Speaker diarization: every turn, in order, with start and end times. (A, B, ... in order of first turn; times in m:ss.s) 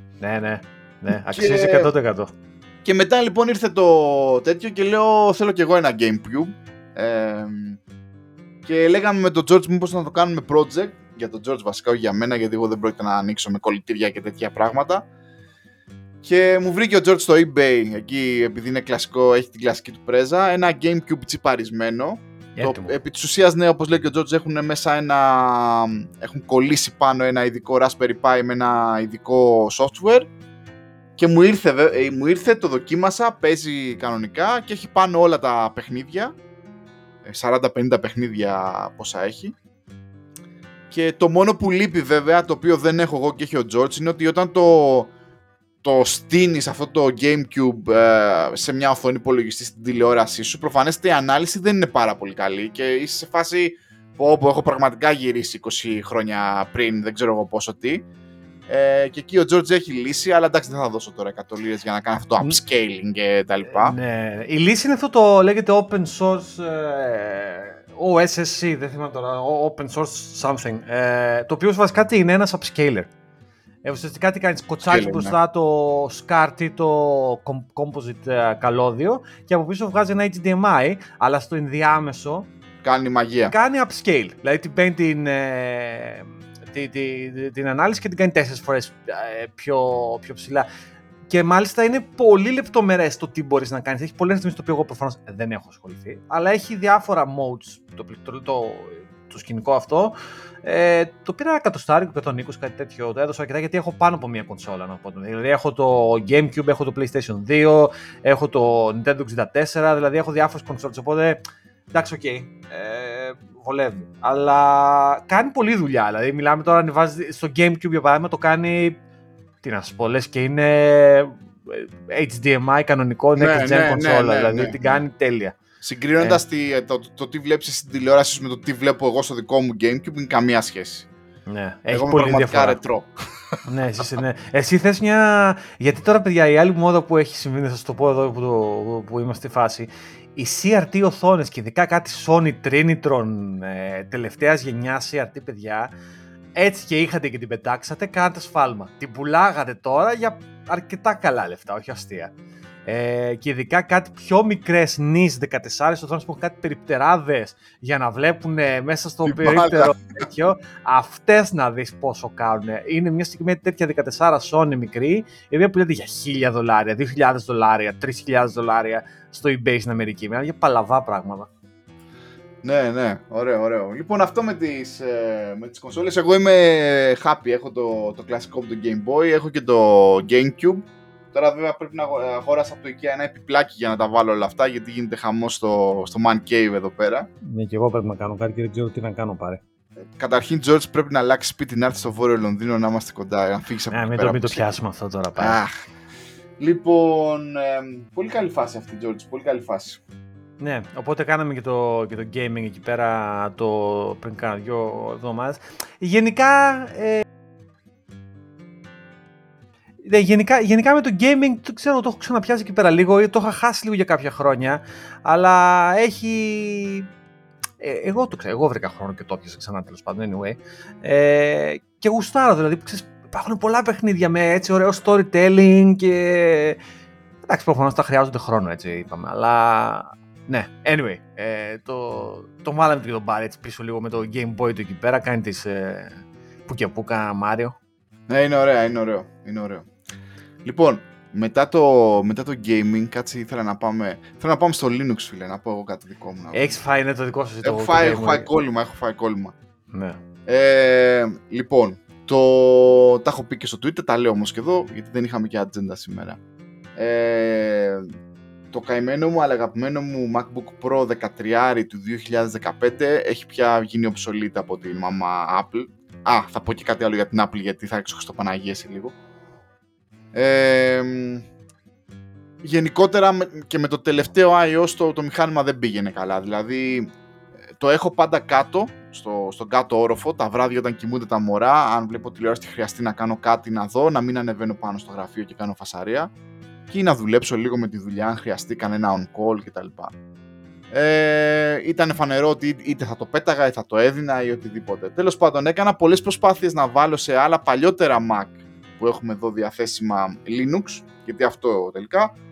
0:00.2-0:02.3 A
0:01.1-0:01.9 B
0:02.8-0:07.8 B
0:08.6-0:15.1 B
0:16.2-0:30.3 B
0:22.6-0:22.9 A
0:31.2-0:36.4 B
0:37.2-0:39.6 B
0:40.9-0:45.1 B
0:45.8-0:58.0 B
0:58.7-1:04.0 B
1:03.7-1:13.1 A
1:13.8-1:22.5 A
1:14.8-1:15.4 B
1:22.8-1:23.5 B
1:23.5-1:30.7 A
1:31.3-1:51.4 A
1:51.9-1:59.0 A
1:59.6-2:05.6 A
2:03.4-2:05.0 B
2:05.8-2:11.1 B
2:11.5-2:12.8 A
2:11.9-2:13.6 B
2:13.7-2:25.9 A
2:26.6-2:32.3 A
2:32.9-2:51.5 A
2:39.2-2:40.3 B
2:52.6-3:07.3 B
3:07.4-3:09.6 A
3:10.2-3:14.6 B
3:13.9-3:15.6 A
3:15.4-3:15.7 B
3:16.6-3:20.0 B
3:20.6-3:27.2 A
3:30.0-3:37.1 A
3:37.8-3:46.8 A
3:47.5-3:57.8 A
3:58.3-3:59.9 B
4:00.6-4:06.8 B
4:06.5-4:08.5 A
4:07.6-4:09.5 B
4:09.9-4:10.2 A
4:10.5-4:16.4 B
4:17.0-4:18.0 B
4:18.7-4:29.1 B
4:30.3-4:31.4 B
4:32.6-4:37.1 B
4:37.8-4:46.3 B
4:46.9-4:50.1 B
4:50.9-5:02.3 B